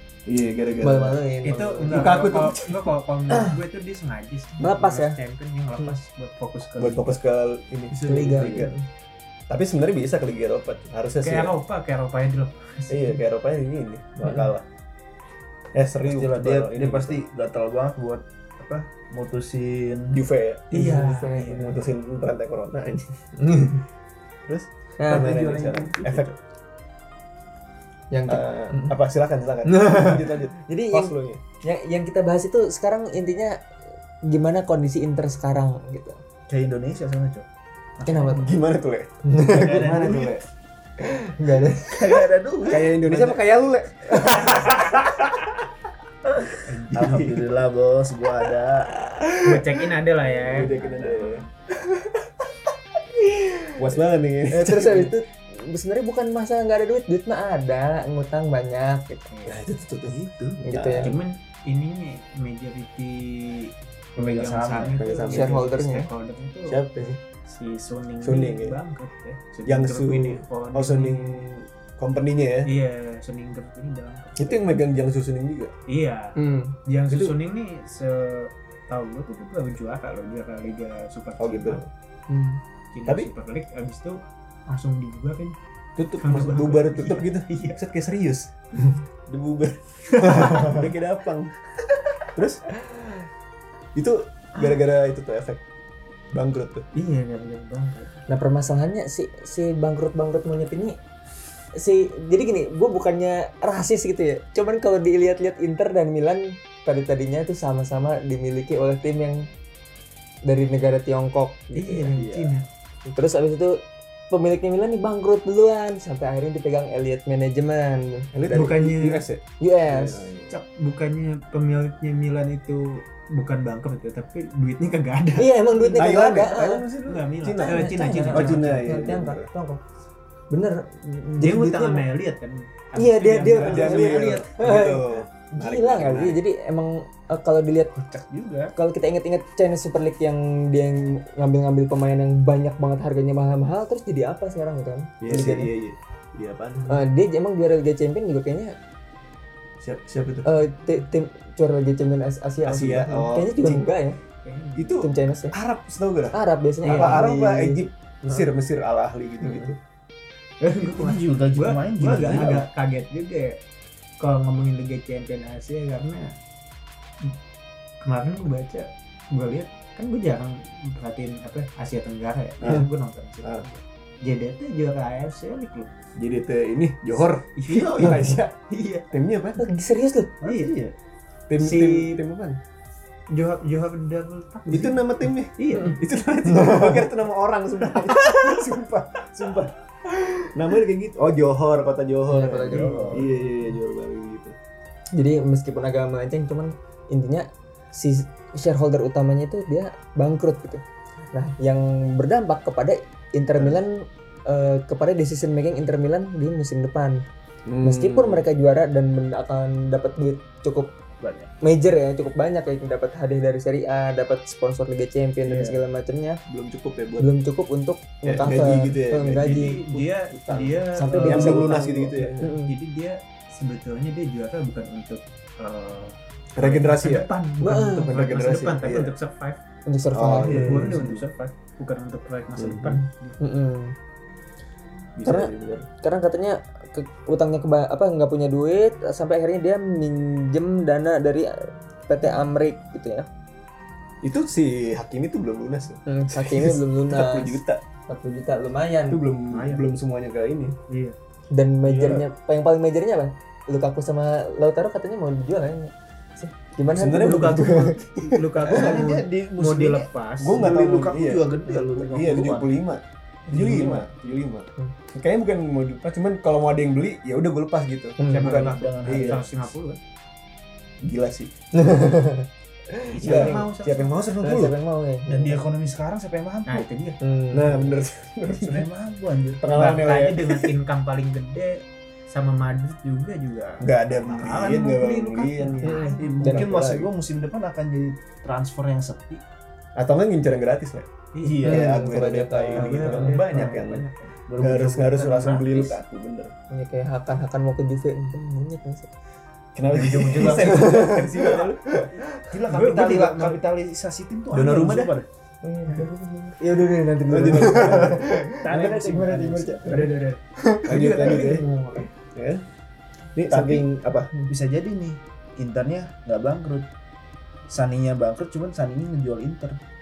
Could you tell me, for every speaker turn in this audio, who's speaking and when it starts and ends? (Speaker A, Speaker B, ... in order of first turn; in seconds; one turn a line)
Speaker A: 0.3-1.2
Speaker B: 0.8-2.3
Speaker C: 1.4-7.2
Speaker A: 1.9-2.9
Speaker B: 3.3-3.6
Speaker B: 4.6-5.2
Speaker A: 6.8-8.7
Speaker D: 7.9-8.7
Speaker B: 8.1-8.9
Speaker A: 9.5-11.5
Speaker C: 11.2-13.2
Speaker A: 12.9-14.7
Speaker A: 15.7-17.2
Speaker D: 16.0-20.2
Speaker A: 20.1-20.7
Speaker C: 20.7-21.8
Speaker B: 20.7-21.7
Speaker A: 21.6-23.2
Speaker B: 23.4-23.8
Speaker A: 24.5-26.4
Speaker B: 25.0-25.8
Speaker D: 25.1-26.3
Speaker B: 28.1-29.0
Speaker A: 28.2-31.4
Speaker B: 29.7-33.6
Speaker B: 34.2-36.2
Speaker D: 36.5-37.5
Speaker D: 38.0-38.5
Speaker B: 38.0-38.5
Speaker A: 38.3-40.5
Speaker B: 39.2-40.0
Speaker D: 39.5-40.4
Speaker B: 41.0-42.1
Speaker D: 41.9-43.4
Speaker A: 42.7-44.9
Speaker D: 46.7-49.0
Speaker A: 46.9-47.5
Speaker C: 49.4-51.3
Speaker A: 50.3-51.5
Speaker A: 53.7-55.1
Speaker B: 54.5-59.4
Speaker A: 59.5-61.1
Speaker D: 60.1-60.6
Speaker B: 60.6-61.1
Speaker C: 61.0-66.8
Speaker D: 64.2-65.0
Speaker A: 64.9-65.7
Speaker B: 65.2-66.1
Speaker A: 66.7-67.2
Speaker C: 67.5-71.5
Speaker A: 68.2-68.8
Speaker A: 69.7-72.7
Speaker C: 72.6-74.8
Speaker A: 74.4-75.7
Speaker C: 75.9-81.9
Speaker B: 76.4-76.8
Speaker A: 77.1-77.3
Speaker A: 81.4-81.9
Speaker B: 82.3-82.6
Speaker C: 82.9-85.6
Speaker A: 83.1-83.3
Speaker A: 86.0-88.5
Speaker C: 86.2-87.8
Speaker A: 89.3-91.5
Speaker C: 90.2-90.8
Speaker A: 92.3-92.7
Speaker A: 94.0-95.6
Speaker A: 96.3-96.9
Speaker C: 96.9-98.1
Speaker B: 98.3-101.0
Speaker B: 101.8-109.5
Speaker B: 110.4-112.3
Speaker C: 111.7-112.7
Speaker B: 113.1-118.3
Speaker A: 118.3-120.5
Speaker C: 118.5-119.3
Speaker B: 119.6-120.3
Speaker C: 120.5-125.5
Speaker B: 125.4-126.9
Speaker A: 125.8-129.5
Speaker C: 127.0-128.9
Speaker B: 127.5-129.8
Speaker B: 130.5-132.1
Speaker C: 131.4-134.5
Speaker B: 133.0-137.9
Speaker A: 133.5-136.4
Speaker D: 138.0-138.8
Speaker B: 138.7-145.7
Speaker A: 145.2-147.0
Speaker B: 146.9-148.8
Speaker A: 149.8-150.5
Speaker B: 150.4-154.2
Speaker A: 152.6-153.9
Speaker C: 154.4-155.0
Speaker A: 154.8-159.8
Speaker B: 155.0-155.6
Speaker B: 156.3-157.9
Speaker C: 156.8-157.3
Speaker C: 160.6-163.6
Speaker D: 160.8-162.7
Speaker C: 164.2-166.4
Speaker C: 168.0-175.9
Speaker A: 172.6-172.9
Speaker A: 176.2-178.6
Speaker C: 177.6-179.1
Speaker A: 179.1-179.7
Speaker B: 179.6-180.3
Speaker D: 180.4-180.9
Speaker C: 180.4-180.7
Speaker A: 181.5-182.6
Speaker C: 181.6-182.2
Speaker C: 183.3-184.9
Speaker A: 184.7-188.4
Speaker C: 185.6-186.0
Speaker B: 186.5-186.9
Speaker C: 187.9-188.6
Speaker D: 188.2-189.7
Speaker A: 190.5-194.6
Speaker B: 192.3-193.3
Speaker D: 192.7-193.3
Speaker B: 195.1-207.2
Speaker A: 207.7-208.4
Speaker B: 207.8-210.9
Speaker D: 211.2-211.5
Speaker B: 211.6-216.4
Speaker A: 216.5-217.3
Speaker B: 217.2-219.8
Speaker A: 218.2-222.5
Speaker C: 219.3-221.9
Speaker B: 221.0-222.8
Speaker C: 222.6-229.6
Speaker A: 226.6-227.3
Speaker B: 227.6-228.1
Speaker A: 228.1-229.1
Speaker B: 229.9-230.9
Speaker A: 230.1-231.0
Speaker D: 230.5-231.2
Speaker C: 230.5-233.4
Speaker A: 232.6-233.0
Speaker B: 233.4-234.0
Speaker A: 235.2-235.9
Speaker B: 235.2-243.3
Speaker A: 244.2-247.8
Speaker B: 246.1-249.2
Speaker A: 249.1-250.8
Speaker C: 249.5-249.8
Speaker C: 250.9-251.2
Speaker B: 251.5-258.0
Speaker A: 251.8-252.3
Speaker A: 256.9-257.9
Speaker C: 257.2-260.6
Speaker D: 258.7-262.7
Speaker A: 260.4-269.4
Speaker C: 263.6-264.0
Speaker D: 263.6-263.9
Speaker B: 268.2-268.5
Speaker C: 268.3-270.0
Speaker D: 268.4-269.4
Speaker A: 271.0-271.5
Speaker B: 271.8-273.5
Speaker C: 273.1-274.2
Speaker A: 273.2-274.8
Speaker B: 274.4-275.6
Speaker D: 275.3-276.9
Speaker C: 276.7-277.2
Speaker B: 277.2-277.8
Speaker A: 277.5-278.9
Speaker D: 278.5-279.8
Speaker A: 279.6-280.7
Speaker C: 279.7-286.6
Speaker A: 283.8-287.1
Speaker D: 285.8-289.4
Speaker A: 290.0-291.1
Speaker C: 291.3-291.7
Speaker D: 291.4-292.0
Speaker A: 291.6-294.1
Speaker B: 291.6-293.4
Speaker C: 292.7-294.4
Speaker D: 294.5-296.0
Speaker A: 294.6-296.5
Speaker B: 296.7-299.1
Speaker A: 299.8-302.1
Speaker B: 300.2-301.6
Speaker D: 300.3-300.9
Speaker D: 302.5-305.3
Speaker C: 302.7-303.6
Speaker A: 304.5-305.1
Speaker B: 305.6-309.7
Speaker A: 307.3-310.1
Speaker D: 308.6-309.9
Speaker C: 309.9-312.1
Speaker B: 310.6-310.9
Speaker A: 310.9-311.6
Speaker A: 312.4-312.6
Speaker A: 313.4-314.3
Speaker D: 313.5-313.9
Speaker D: 314.5-316.9
Speaker D: 317.7-319.8